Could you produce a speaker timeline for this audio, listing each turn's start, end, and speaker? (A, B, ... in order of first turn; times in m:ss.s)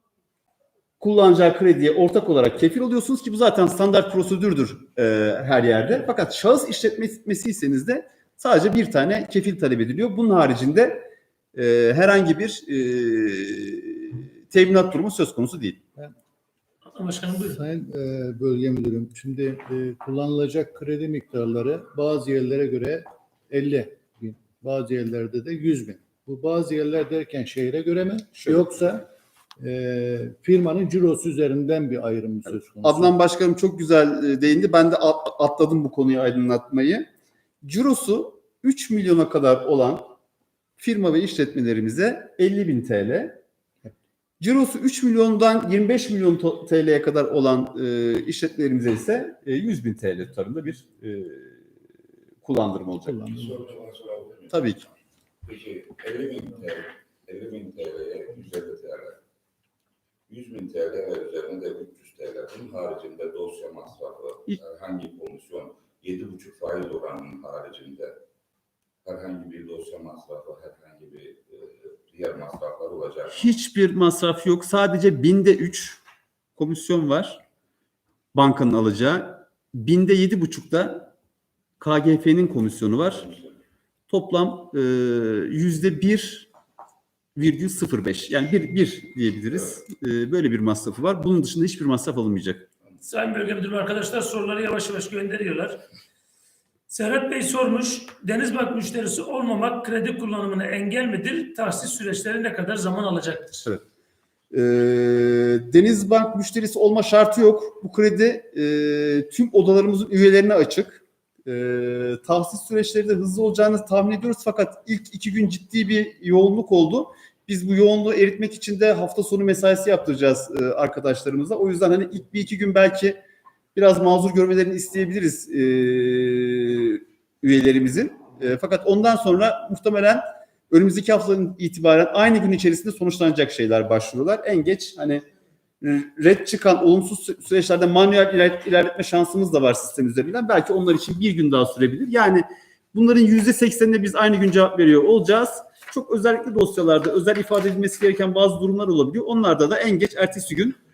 0:01.0-0:15.8 A
0:16.8-0:17.6 B
0:17.4-0:29.0 C
0:28.4-0:28.6 A
0:29.6-0:33.1 C
0:32.8-0:37.0 A
0:37.6-0:40.1 A
0:40.8-0:43.4 A
0:44.4-0:51.6 A
0:52.4-0:53.3 A
0:53.0-0:53.7 C
0:53.2-0:54.9 D
0:54.5-0:54.8 A
0:55.4-0:59.2 D
1:00.3-1:08.2 D
1:09.0-1:13.4 D
1:13.3-1:16.0 A
1:16.6-1:17.4 A
1:18.3-1:21.1 A
1:21.8-1:23.3 A
1:24.1-1:26.5 A
1:27.4-1:32.7 A
1:33.0-1:35.8 B
1:36.9-1:43.7 B
1:44.5-2:03.2 A
2:03.7-2:15.2 A
2:15.8-2:30.8 A